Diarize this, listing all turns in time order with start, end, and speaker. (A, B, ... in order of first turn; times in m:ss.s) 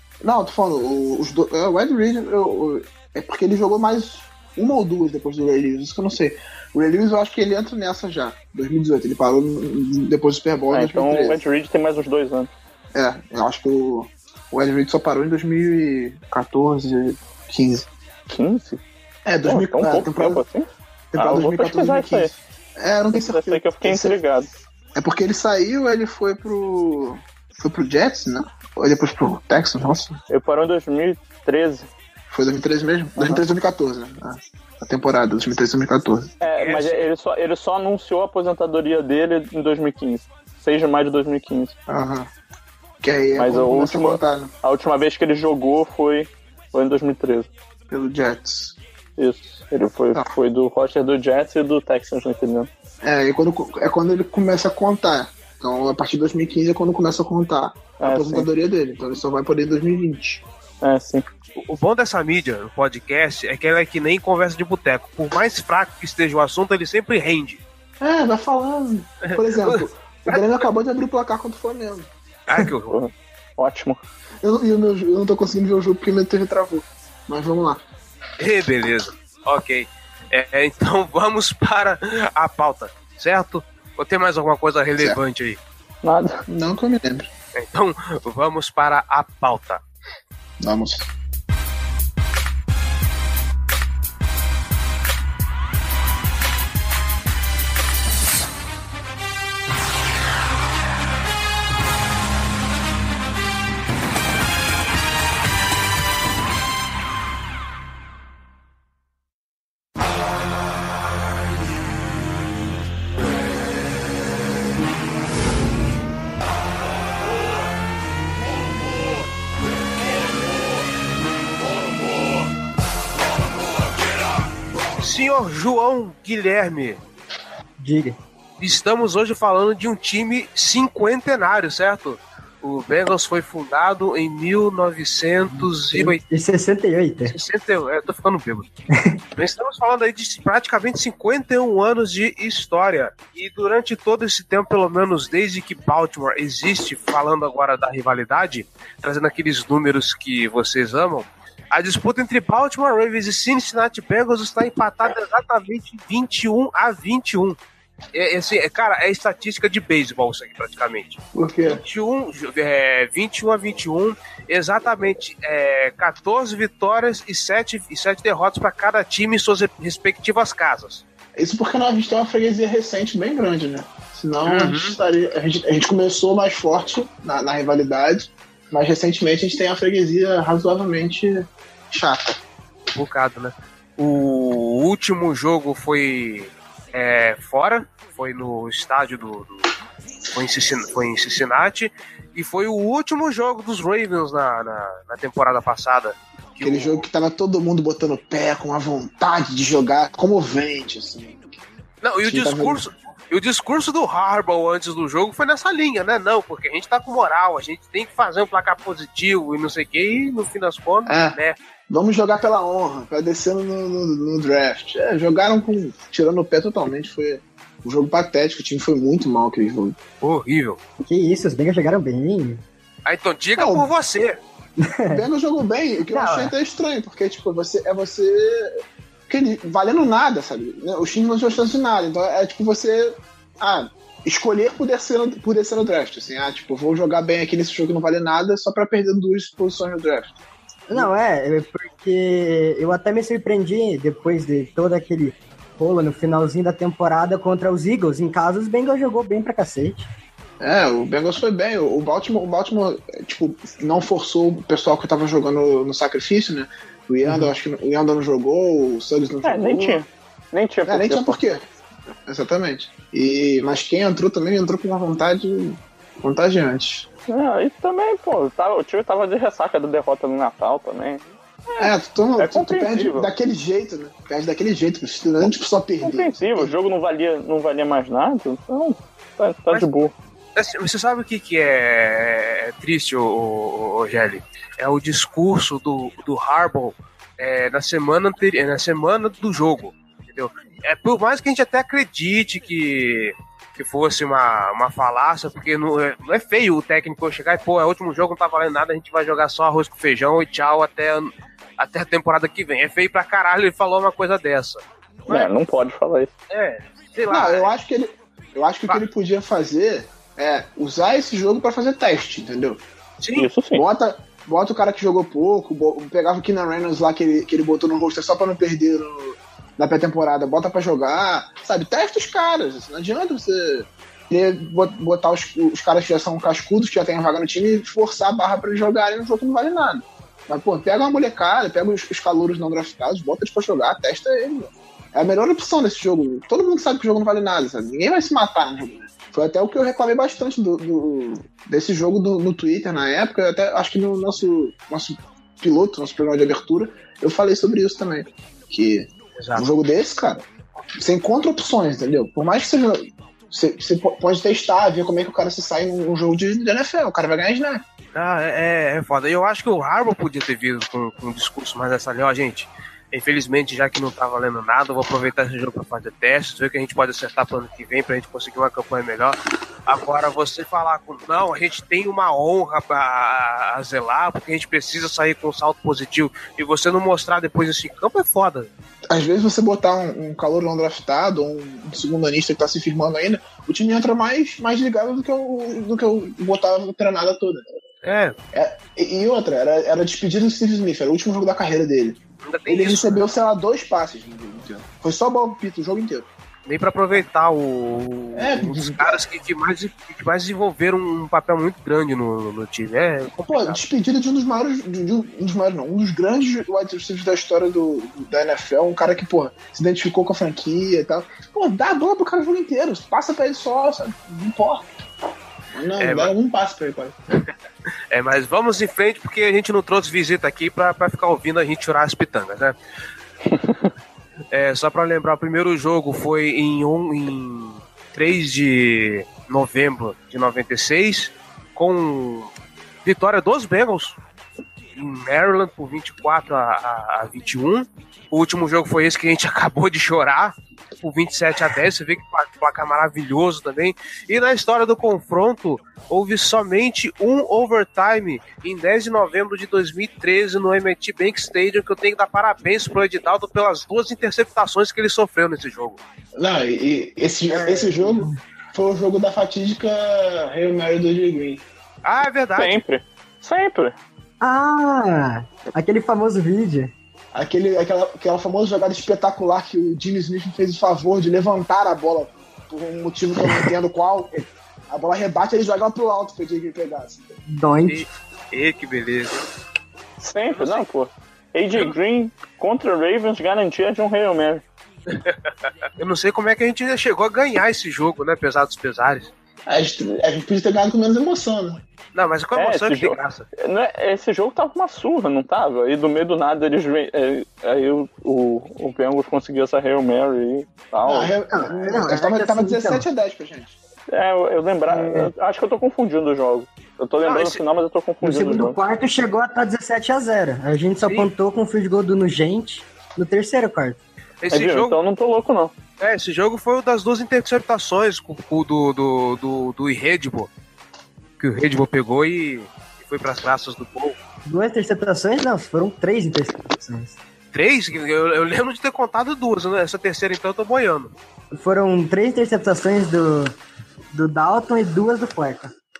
0:00.2-0:11.4 A
0:10.7-0:12.5 B
0:12.9-0:17.9 A
0:18.3-0:18.8 B
0:19.2-0:20.4 A
0:19.4-0:22.3 B
0:21.1-0:24.2 A
0:23.1-0:24.5 B
0:25.0-0:30.2 A
0:30.3-0:31.9 B
0:32.3-0:36.3 A
0:36.4-0:41.8 B
0:36.6-0:37.0 C
0:41.9-0:42.3 A
0:43.0-0:44.5 A
0:43.4-0:47.5 B
0:47.9-0:48.8 A
0:49.2-0:52.7 B
0:53.0-1:00.4 A
0:58.0-0:58.5 B
1:00.8-1:01.3 B
1:01.6-1:07.6 C
1:08.0-1:12.1 A
1:09.3-1:10.4 C
1:12.5-1:13.0 C
1:12.9-1:14.0 B
1:14.4-1:17.8 A
1:18.4-1:25.6 C
1:26.0-1:26.4 B
1:26.5-1:27.3 A
1:27.6-1:29.8 C
1:30.6-1:31.1 A
2:05.0-2:07.0 C
2:07.8-2:08.2 D
2:08.6-2:16.2 C
2:15.5-2:17.4 D
2:17.3-2:18.7 C
2:19.4-2:37.6 C
2:38.1-2:51.0 C
2:41.4-2:41.8 A
2:51.4-3:02.4 A
2:54.5-2:55.0 C
3:02.9-3:09.7 C
3:10.3-3:17.0 C
3:16.6-3:21.4 A
3:22.0-3:31.6 C
3:22.2-3:22.8 A
3:31.1-3:31.4 A
3:31.9-3:40.0 A
3:40.2-3:40.8 C
3:41.0-3:42.6 D
3:43.1-3:44.4 C
3:43.6-3:43.9 A
3:44.8-3:45.2 D
3:45.1-4:00.4 A
3:46.1-3:46.5 D
4:00.9-4:10.1 D
4:10.6-4:20.0 A
4:17.2-4:17.5 D
4:19.4-4:21.4 B
4:20.9-4:21.6 A
4:22.2-4:27.1 A
4:27.3-4:33.3 B
4:31.8-4:36.7 A
4:36.0-4:40.1 B
4:40.6-5:05.5 C
5:05.3-5:06.3 B
5:06.5-5:07.7 C
5:07.3-5:12.8 A
5:13.2-5:13.5 C
5:13.4-5:13.8 B
5:13.7-5:50.5 A
5:49.4-5:49.7 C
5:51.0-5:57.8 A
5:58.2-6:18.7 C
6:19.1-6:27.6 A
6:28.0-6:28.4 C
6:28.5-6:36.3 A
6:32.4-6:33.2 C
6:36.7-6:43.8 C
6:38.4-6:39.2 A
6:43.5-6:54.9 A
6:55.7-6:57.2 A
6:56.0-6:56.3 C
6:58.1-7:02.8 C
7:03.5-7:03.9 B
7:04.5-7:12.5 C
7:13.0-7:14.2 C
7:15.0-7:36.0 C
7:36.4-7:41.6 A
7:37.6-7:38.4 D
7:42.0-7:42.8 C
7:42.6-7:44.0 B
7:44.4-7:46.9 D
7:47.3-7:57.4 A
7:57.5-7:58.1 D
7:57.9-7:59.4 C
8:00.2-8:04.6 B
8:00.5-8:00.9 C
8:05.1-8:09.3 C
8:09.7-8:11.8 A
8:12.2-8:13.5 C
8:12.6-8:21.4 B
8:21.0-8:23.8 A
8:21.5-8:23.0 D
8:24.1-8:28.8 B
8:24.9-8:25.3 D
8:27.2-8:27.6 C
8:28.2-8:34.0 D
8:31.0-8:31.3 C
8:34.4-8:35.0 C
8:34.5-8:35.7 B
8:36.0-8:40.5 C
8:41.4-8:44.2 C
8:44.4-8:47.2 D
8:47.5-8:51.1 C
8:51.5-8:53.6 D
8:54.1-8:55.7 D